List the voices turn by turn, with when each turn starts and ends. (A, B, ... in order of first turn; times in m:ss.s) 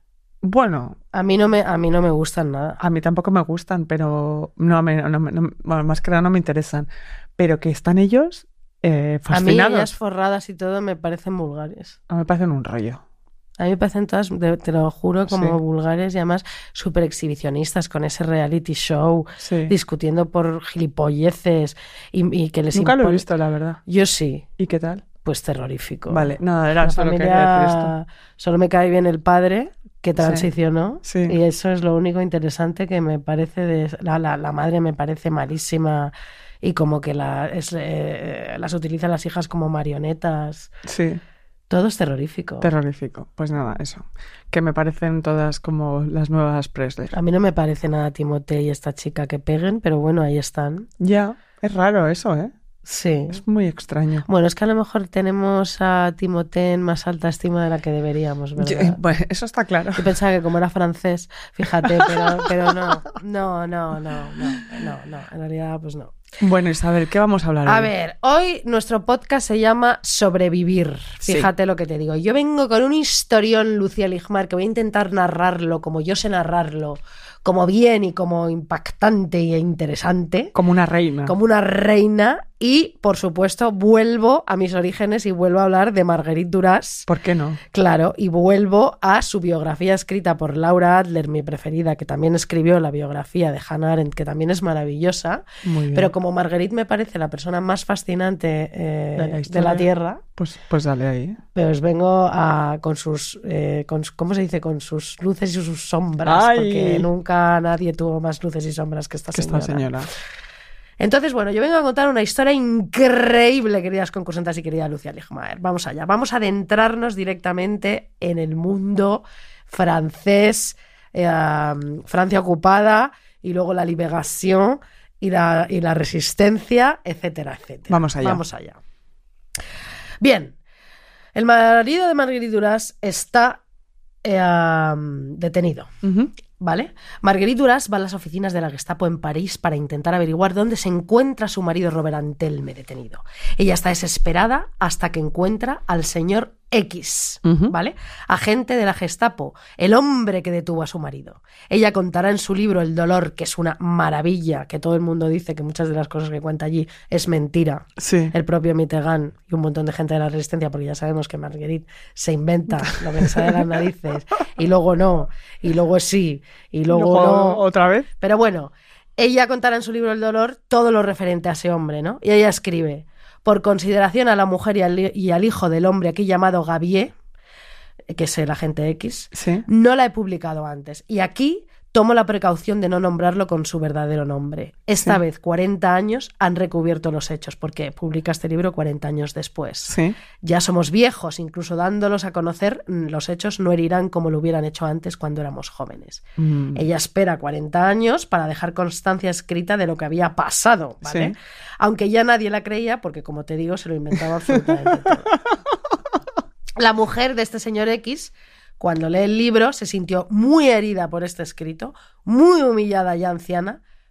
0:00.4-0:01.0 A
0:01.1-0:02.8 B
0:02.8-0:09.9 A
0:09.3-0:12.0 B
0:12.1-0:13.0 A
0:13.6-0:23.3 B
0:15.3-0:15.6 A
0:19.4-0:19.7 A
0:22.7-0:23.8 A
0:23.9-0:24.5 B
0:24.6-0:25.0 A
0:25.2-0:40.7 B
0:26.1-0:27.9 A
0:30.2-0:30.5 A
0:31.0-0:31.4 A
0:40.8-0:41.2 A
0:41.7-0:42.7 B
0:42.6-0:47.1 A
0:47.1-0:50.9 B
0:51.0-0:52.5 A
0:52.8-0:53.4 B
0:53.3-0:54.3 A
0:54.3-0:59.0 B
0:58.6-1:00.1 A
1:00.0-1:06.2 B
1:01.8-1:02.6 A
1:06.4-1:07.9 A
1:07.6-1:20.6 B
1:20.5-1:21.4 A
1:21.3-1:27.1 B
1:27.1-1:27.6 A
1:27.7-1:40.2 B
1:35.6-1:36.1 A
1:39.2-1:41.4 A
1:41.6-1:49.9 B
1:46.2-1:47.1 A
1:49.3-1:50.1 A
1:51.0-2:08.8 B
2:07.9-2:08.4 A
2:10.2-2:10.6 B
2:11.4-2:13.6 B
2:14.2-2:15.9 B
2:16.0-2:16.3 A
2:16.6-2:47.6 B
2:27.4-2:27.7 A
2:38.0-2:38.3 A
2:43.3-2:43.6 A
2:46.9-2:48.1 A
2:48.2-2:57.2 B
2:58.1-3:25.3 B
2:59.3-2:59.7 A
3:09.9-3:10.2 A
3:16.4-3:16.8 A
3:21.0-3:21.3 A
3:26.8-3:33.8 B